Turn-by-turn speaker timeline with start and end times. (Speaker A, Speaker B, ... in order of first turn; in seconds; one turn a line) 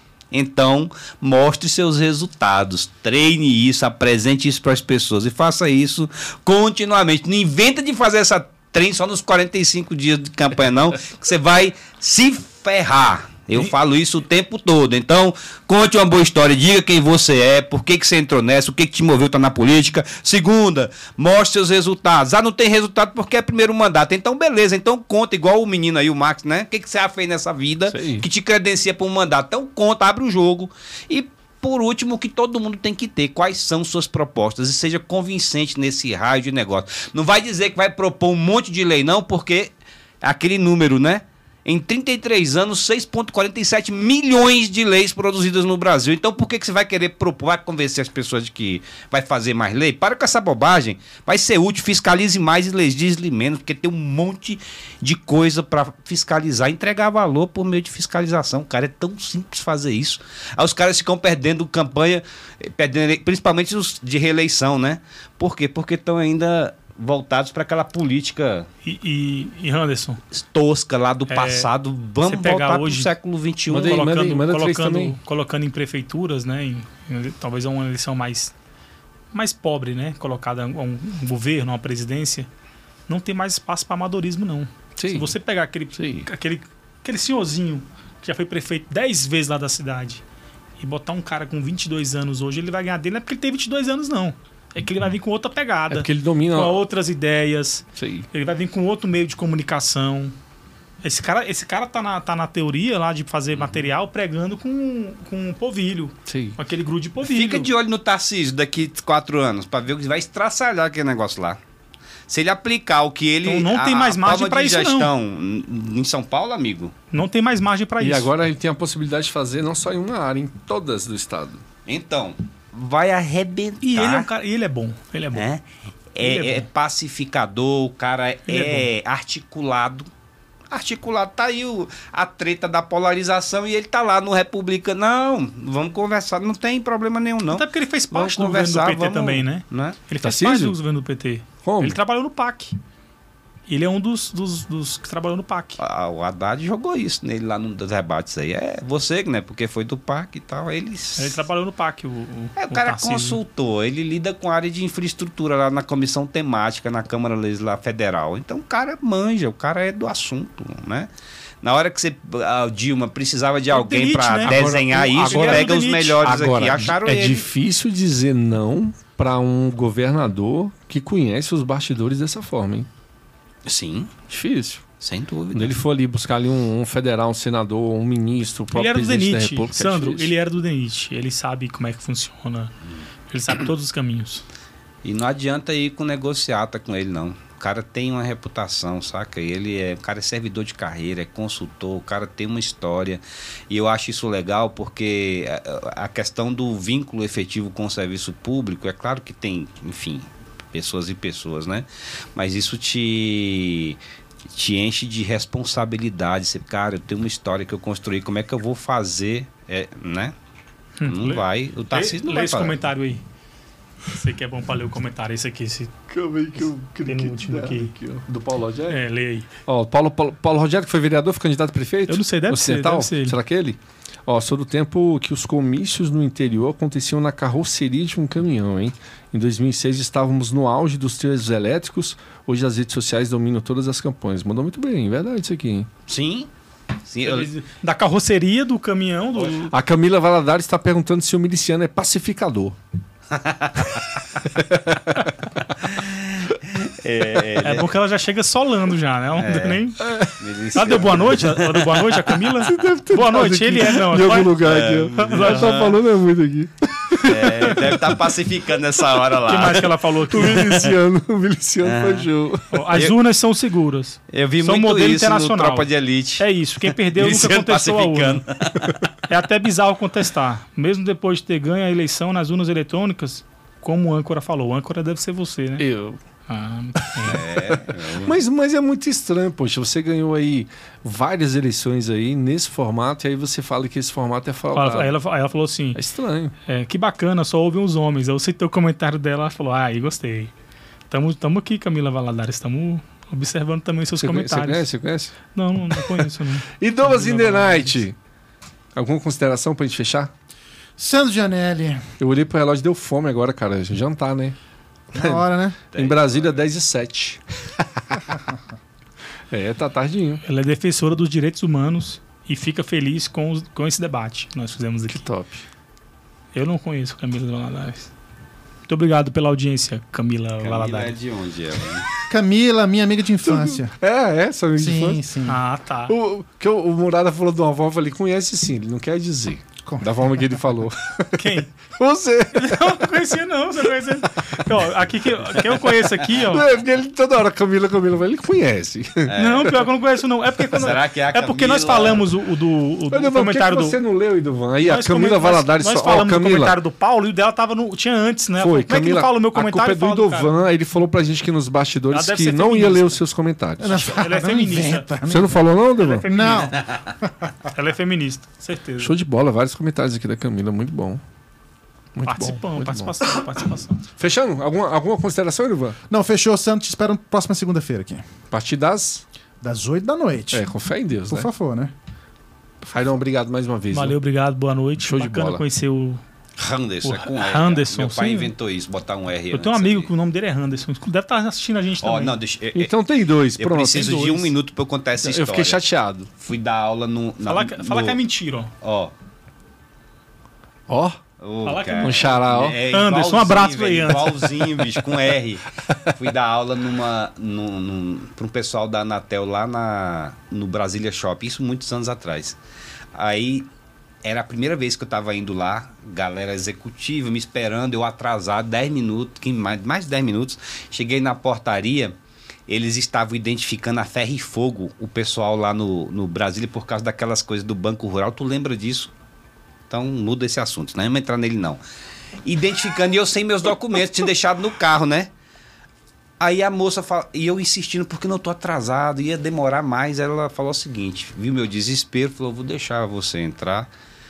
Speaker A: 0.3-68.7
Speaker B: 27.9-28.2
Speaker C: 68.8-70.2
Speaker A: 70.3-74.0
Speaker C: 71.3-71.7
Speaker C: 72.2-73.1
Speaker B: 73.7-75.2
Speaker C: 73.8-78.5
Speaker C: 79.3-82.5
Speaker C: 83.1-90.2
Speaker B: 85.0-85.3
Speaker B: 85.9-86.3
Speaker C: 90.8-100.3
Speaker B: 95.9-96.8
Speaker B: 98.0-98.3
Speaker C: 101.0-107.7
Speaker A: 103.5-103.8
Speaker B: 106.2-106.6
Speaker A: 107.2-111.6
Speaker A: 112.3-116.9
Speaker C: 113.4-115.1
Speaker C: 117.1-118.3
Speaker B: 118.0-121.6
Speaker A: 121.8-124.3
Speaker C: 123.8-125.5
Speaker A: 125.3-125.6
Speaker A: 126.1-130.1
Speaker C: 126.2-126.7
Speaker C: 128.5-128.9
Speaker A: 130.7-140.0
Speaker C: 137.5-142.7
Speaker B: 140.2-140.8
Speaker B: 141.6-142.0
Speaker C: 143.7-145.8
Speaker A: 145.8-151.4
Speaker C: 151.2-153.4
Speaker A: 152.6-161.1
Speaker A: 161.6-167.5
Speaker C: 163.7-164.6
Speaker B: 164.4-172.9
Speaker C: 165.2-166.6
Speaker A: 173.7-174.1
Speaker B: 174.3-174.8
Speaker A: 175.0-175.7
Speaker B: 175.5-180.3
Speaker C: 178.7-182.7
Speaker C: 183.3-184.4
Speaker A: 185.0-204.0
Speaker A: 204.5-210.3
Speaker C: 211.0-213.2
Speaker A: 211.1-212.8
Speaker C: 214.1-215.9
Speaker B: 216.1-219.0
Speaker C: 217.0-217.9
Speaker C: 218.9-219.5
Speaker B: 219.7-235.9
Speaker C: 222.1-223.4
Speaker A: 236.1-236.5
Speaker A: 237.1-237.5
Speaker C: 237.2-239.7
Speaker B: 239.7-242.8
Speaker A: 243.3-244.2
Speaker B: 244.5-245.3
Speaker A: 245.8-247.9
Speaker C: 247.6-250.1
Speaker A: 249.4-249.8
Speaker B: 250.0-250.3
Speaker A: 250.4-251.7
Speaker C: 250.7-254.5
Speaker B: 252.4-258.3
Speaker A: 254.6-256.0
Speaker C: 255.1-255.7
Speaker A: 257.2-259.9
Speaker C: 259.4-260.7
Speaker B: 260.3-262.9
Speaker A: 260.4-260.9
Speaker A: 261.8-262.3
Speaker C: 262.7-268.4
Speaker A: 264.3-269.1
Speaker C: 269.3-275.9
Speaker B: 275.8-276.2
Speaker C: 276.5-277.4
Speaker B: 276.9-285.1
Speaker A: 277.2-278.4
Speaker C: 284.7-286.0
Speaker B: 285.9-286.5
Speaker C: 286.7-290.5
Speaker C: 291.1-294.9
Speaker B: 294.2-295.3
Speaker C: 295.5-298.0
Speaker B: 295.9-298.1
Speaker B: 298.9-300.3
Speaker D: 301.0-302.0
Speaker B: 302.2-304.6
Speaker D: 305.1-305.8
Speaker B: 305.1-307.4
Speaker A: 305.9-306.6
Speaker B: 309.5-310.4
Speaker C: 310.4-315.2
Speaker B: 315.1-315.6
Speaker C: 316.5-318.1
Speaker C: 318.9-321.1
Speaker A: 320.6-322.1
Speaker D: 322.3-323.9
Speaker B: 323.4-325.2
Speaker D: 324.8-325.6
Speaker C: 325.4-326.1
Speaker B: 326.1-333.0
Speaker C: 331.3-331.7
Speaker C: 332.5-336.6
Speaker B: 336.3-339.7
Speaker A: 339.2-339.9
Speaker C: 339.3-344.0
Speaker A: 340.7-342.2
Speaker B: 343.1-346.8
Speaker C: 344.8-350.5
Speaker B: 348.6-354.2
Speaker C: 352.1-353.2
Speaker D: 353.8-355.7
Speaker C: 353.9-355.1
Speaker B: 355.2-356.3
Speaker C: 355.9-356.7
Speaker D: 356.2-357.5
Speaker C: 357.7-359.1
Speaker B: 359.0-361.2
Speaker B: 362.1-363.4
Speaker C: 362.2-364.0
Speaker B: 364.1-366.0
Speaker D: 366.1-368.2
Speaker B: 368.5-369.2
Speaker D: 369.6-370.7
Speaker B: 370.5-371.5
Speaker D: 371.3-371.9
Speaker B: 372.8-374.2
Speaker C: 373.9-376.2
Speaker B: 375.0-375.6
Speaker A: 376.6-380.1
Speaker C: 377.0-378.5
Speaker C: 379.5-382.3
Speaker A: 382.0-382.9
Speaker B: 382.7-384.3
Speaker A: 383.6-385.8
Speaker C: 383.9-384.5
Speaker B: 385.2-386.3
Speaker A: 386.4-388.2
Speaker C: 387.4-388.7
Speaker A: 388.8-389.1
Speaker B: 390.9-391.2
Speaker A: 391.4-402.6
Speaker C: 391.6-392.3
Speaker B: 392.0-392.8
Speaker C: 392.9-394.5
Speaker A: 403.1-403.7
Speaker A: 404.2-412.1
Speaker A: 412.7-419.1
Speaker A: 419.9-421.8
Speaker A: 422.4-425.3
Speaker A: 426.4-433.9